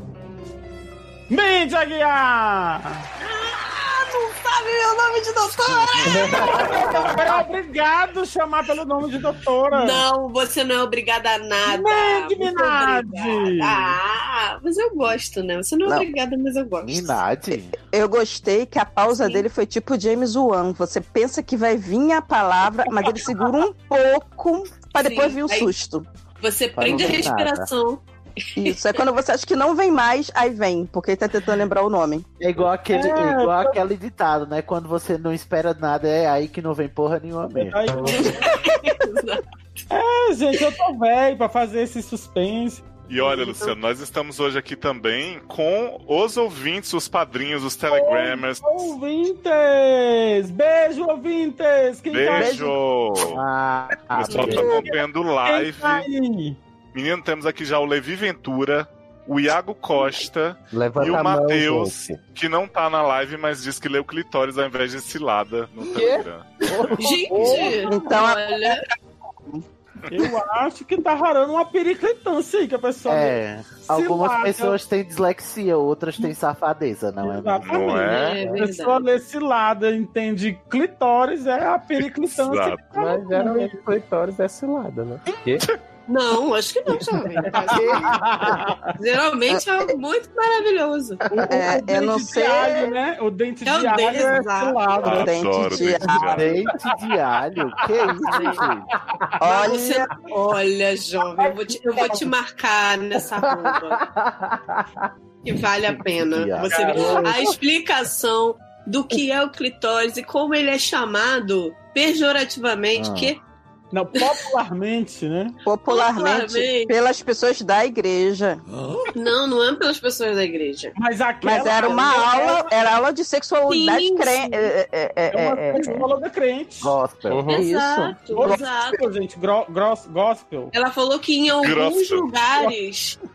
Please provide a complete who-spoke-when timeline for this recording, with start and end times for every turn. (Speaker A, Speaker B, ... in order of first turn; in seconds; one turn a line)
Speaker A: 1.3-3.0
Speaker B: 3.2-7.4
Speaker C: 6.0-6.3
Speaker D: 6.0-6.7
Speaker A: 6.4-10.0
Speaker B: 9.7-17.2
Speaker A: 11.6-14.0
Speaker C: 16.8-17.7
Speaker E: 17.9-26.1
Speaker B: 19.2-19.5
Speaker B: 24.9-25.7
Speaker B: 26.4-28.0
Speaker C: 26.7-27.7
Speaker E: 26.9-27.2
Speaker B: 28.6-29.0
Speaker E: 28.6-32.2
Speaker C: 32.4-37.8
Speaker A: 32.9-33.8
Speaker A: 37.5-38.5
Speaker D: 37.9-38.2
Speaker B: 38.2-39.4
Speaker A: 39.9-43.7
Speaker F: 43.1-48.9
Speaker A: 47.9-52.5
Speaker F: 52.1-53.4
Speaker E: 52.3-52.7
Speaker C: 53.3-54.8
Speaker F: 54.1-56.0
Speaker A: 54.3-56.6
Speaker E: 54.3-54.9
Speaker F: 56.9-66.9
Speaker D: 60.7-62.2
Speaker D: 65.9-66.2
Speaker C: 66.7-67.9
Speaker B: 66.9-68.8
Speaker D: 67.3-67.6
Speaker E: 67.8-68.8
Speaker A: 70.1-74.8
Speaker C: 73.1-78.0
Speaker A: 77.2-83.8
Speaker F: 77.6-78.4
Speaker B: 78.0-79.0
Speaker F: 82.3-82.8
Speaker D: 82.9-85.7
Speaker B: 86.1-88.2
Speaker A: 87.4-88.9
Speaker C: 87.7-88.2
Speaker B: 89.0-91.2
Speaker A: 91.3-95.3
Speaker D: 91.3-91.7
Speaker E: 91.5-93.0
Speaker B: 93.6-95.1
Speaker E: 95.0-96.4
Speaker F: 95.0-96.5
Speaker C: 96.3-98.9
Speaker B: 98.3-98.7
Speaker E: 99.4-100.1
Speaker B: 99.4-104.0
Speaker D: 103.2-104.9
Speaker B: 105.4-113.4
Speaker C: 106.2-107.2
Speaker D: 106.7-107.5
Speaker A: 106.8-107.2
Speaker C: 112.9-113.3
Speaker A: 113.9-115.5
Speaker E: 115.6-118.6
Speaker B: 115.9-116.9
Speaker B: 119.1-120.9
Speaker A: 121.0-122.7
Speaker E: 121.4-125.8
Speaker B: 123.7-124.7
Speaker A: 125.3-127.0
Speaker C: 126.8-128.0
Speaker D: 127.3-128.0
Speaker B: 127.5-129.0
Speaker A: 128.3-130.7
Speaker B: 130.7-133.2
Speaker F: 131.5-132.3